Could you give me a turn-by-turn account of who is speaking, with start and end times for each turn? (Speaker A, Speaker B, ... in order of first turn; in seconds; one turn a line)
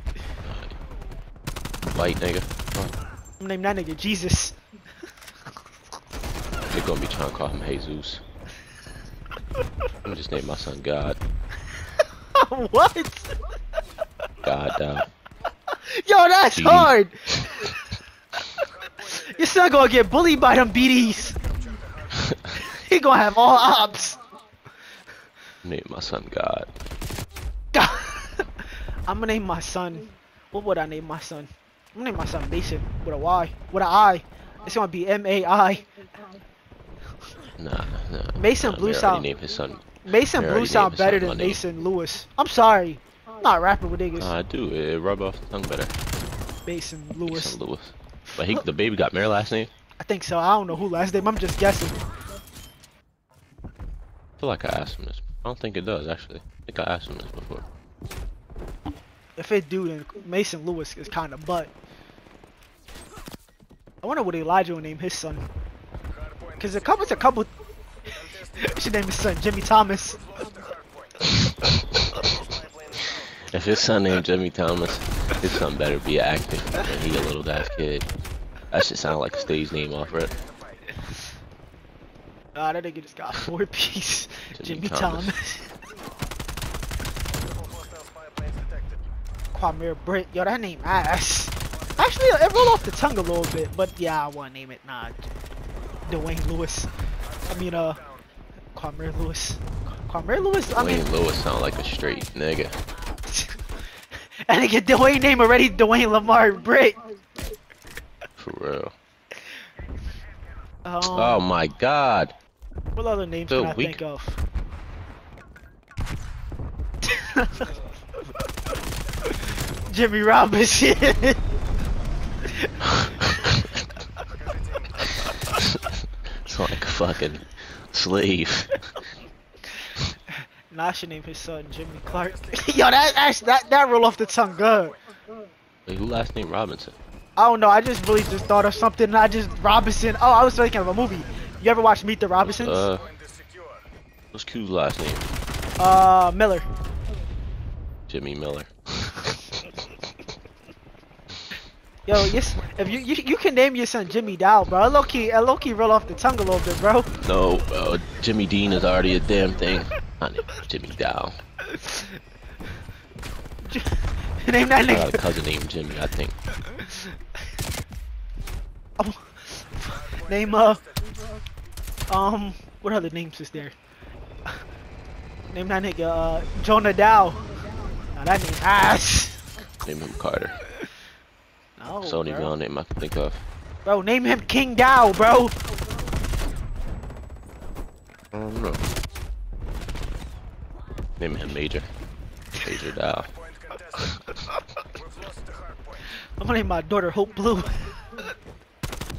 Speaker A: 0.4-0.8
Speaker A: 1.9-2.9
Speaker B: 3.4-4.6
Speaker A: 6.7-8.2
Speaker A: 10.1-11.2
Speaker B: 12.3-13.3
Speaker A: 14.4-15.1
Speaker B: 15.9-17.8
Speaker A: 16.5-17.0
Speaker B: 18.6-21.4
Speaker A: 22.1-22.5
Speaker B: 22.6-24.2
Speaker A: 25.6-26.7
Speaker B: 27.7-35.9
Speaker A: 37.6-41.6
Speaker B: 38.3-39.3
Speaker B: 40.0-44.3
Speaker A: 44.2-45.9
Speaker B: 46.6-47.6
Speaker A: 47.2-49.7
Speaker B: 48.3-48.6
Speaker B: 50.0-52.0
Speaker A: 54.4-57.6
Speaker B: 59.4-61.7
Speaker B: 64.0-65.4
Speaker B: 66.6-67.5
Speaker B: 68.4-70.3
Speaker A: 71.4-72.2
Speaker A: 73.5-78.1
Speaker A: 78.7-80.3
Speaker B: 82.5-85.8
Speaker A: 84.5-85.3
Speaker B: 89.5-95.3
Speaker B: 96.1-96.9
Speaker B: 97.5-98.0
Speaker B: 98.8-101.1
Speaker A: 100.7-102.8
Speaker B: 103.3-103.6
Speaker B: 104.5-107.0
Speaker A: 108.4-108.9
Speaker B: 110.8-111.4
Speaker A: 111.0-112.3
Speaker B: 113.0-114.4
Speaker A: 113.5-114.0
Speaker B: 117.0-117.7
Speaker B: 119.3-121.4
Speaker B: 122.6-123.0
Speaker A: 123.2-123.6
Speaker B: 125.0-125.4
Speaker A: 125.5-128.7
Speaker B: 130.7-135.0
Speaker A: 135.9-137.0
Speaker B: 137.4-142.9
Speaker A: 142.4-143.1
Speaker A: 144.3-145.3
Speaker B: 145.8-146.7
Speaker A: 148.1-149.3
Speaker B: 152.1-157.1
Speaker A: 157.1-161.4
Speaker B: 161.7-162.2
Speaker B: 163.6-165.2
Speaker A: 164.9-166.3
Speaker B: 166.6-167.1
Speaker B: 169.0-170.8
Speaker B: 172.1-173.8
Speaker B: 175.5-177.4
Speaker B: 178.1-179.4
Speaker A: 179.8-180.6
Speaker B: 181.8-182.5
Speaker A: 182.0-183.4
Speaker B: 183.8-185.5
Speaker A: 188.3-188.9
Speaker A: 191.2-191.9
Speaker A: 192.6-193.3
Speaker B: 194.3-194.6
Speaker B: 196.4-198.3